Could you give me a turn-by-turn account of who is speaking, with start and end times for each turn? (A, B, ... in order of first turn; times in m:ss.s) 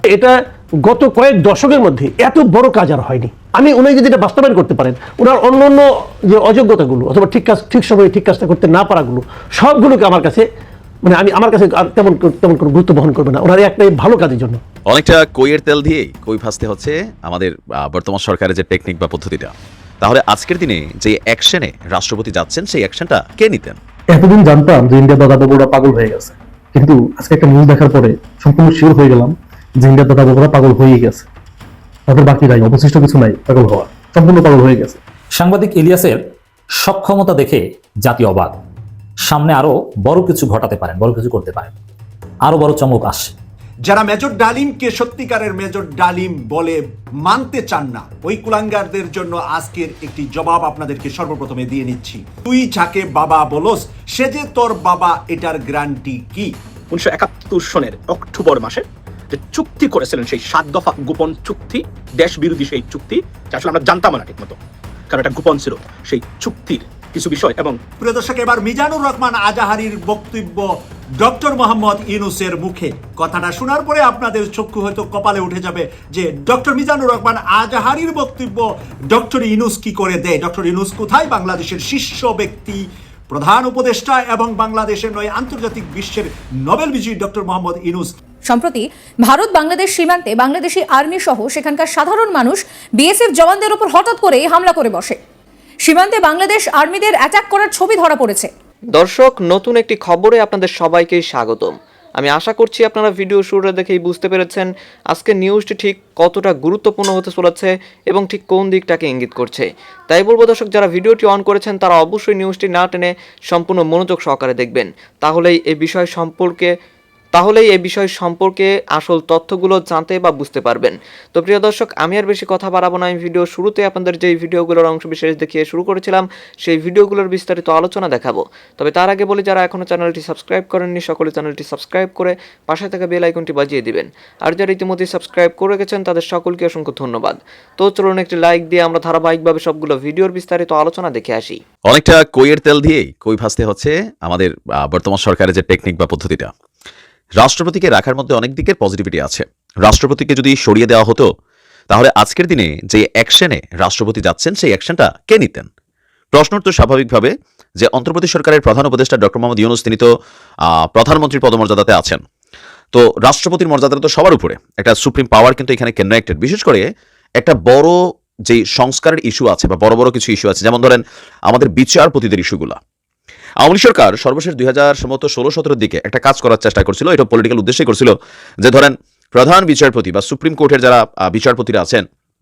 0:00.8-0:10.4 A
0:11.1-0:14.6 A
0:14.9-0:23.8 B
0:24.1-0:31.2 C
0:32.1-0:35.0 C
0:35.4-0:38.6 D
0:39.2-0:41.7 D
0:42.4-0:43.3 D
0:43.9-0:56.5 E
0:56.9-1:04.6 F
1:05.1-1:07.9 F
1:07.9-1:10.7 E
1:11.2-1:28.1 E
1:28.5-1:35.2 G
1:35.8-1:38.5 G
1:39.0-1:56.7 H
1:57.4-2:21.6 H
2:21.9-2:26.5 B
2:27.4-2:31.3 B
2:31.9-2:35.7 B
2:36.3-2:40.1 B
2:40.6-2:42.2 B
2:42.9-2:46.9 B
2:47.4-2:52.8 B
2:53.6-3:02.1 B